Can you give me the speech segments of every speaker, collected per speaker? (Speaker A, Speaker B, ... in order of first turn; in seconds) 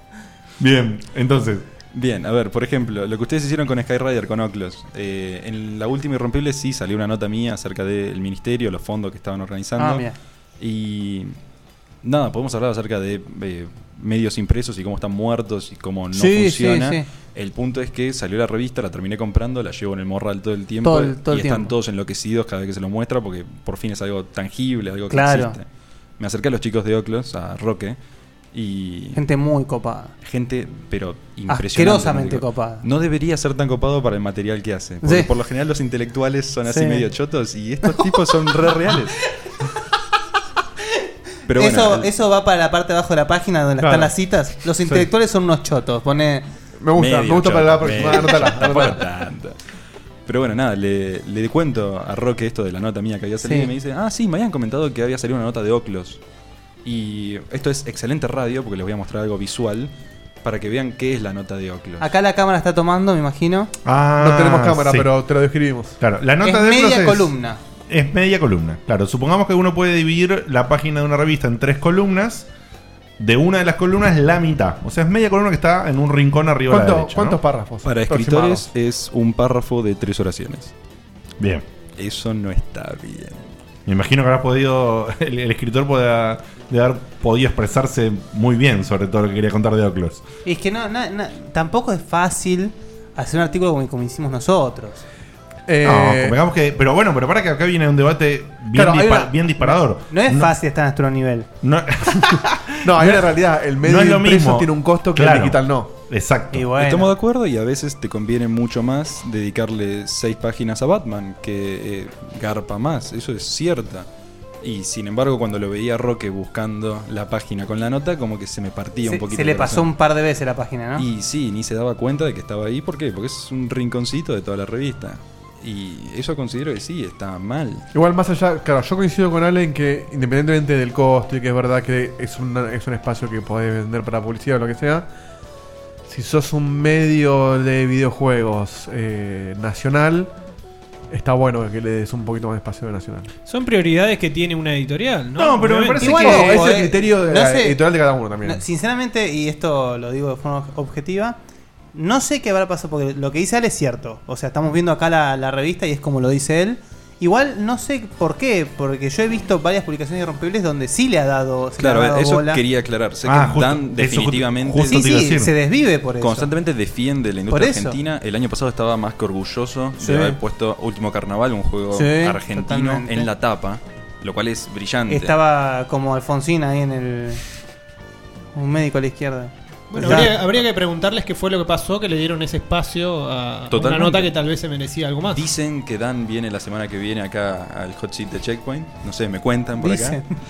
Speaker A: 0.6-1.6, 63.9-65.1, 66.0-67.3, 67.9-72.5, 73.2-77.4, 81.4-81.7, 83.9-90.2, 95.8-100.5, 101.6-106.7, 145.4-146.6, 163.2-165.5
Speaker B: 1.9-10.1, 10.6-11.3, 12.0-25.7, 26.2-28.0, 28.5-29.2, 30.2-39.2, 41.5-42.1, 47.0-49.6, 50.3-56.2, 56.8-59.9, 60.4-62.1, 77.8-80.7, 82.0-83.5, 106.8-114.1, 114.6-119.9, 121.0-127.9, 161.8-165.1, 166.2-175.3, 183.7-184.3, 185.3-190.2
Speaker C: 9.8-10.2, 16.1-17.1, 20.8-21.7, 25.1-25.6, 29.1-30.1, 31.5-32.9, 35.0-35.3, 36.6-37.1, 41.5-46.5, 53.4-53.7, 62.0-63.7, 66.4-67.6, 90.5-95.0, 100.1-101.5, 106.5-107.1, 119.0-121.0, 146.0-147.8, 148.4-151.4, 151.9-162.6, 164.8-166.5, 167.5-168.0, 170.0-170.4, 171.9-173.3, 175.1-177.4, 178.6-180.3, 189.8-190.3
Speaker D: 43.8-44.1, 46.8-49.0, 64.2-66.0, 76.7-78.7, 95.7-96.4, 98.7-99.8, 102.8-105.9, 127.9-135.1, 136.1-140.3, 141.1-143.3, 146.0-148.6
Speaker E: 143.5-146.7, 179.9-185.5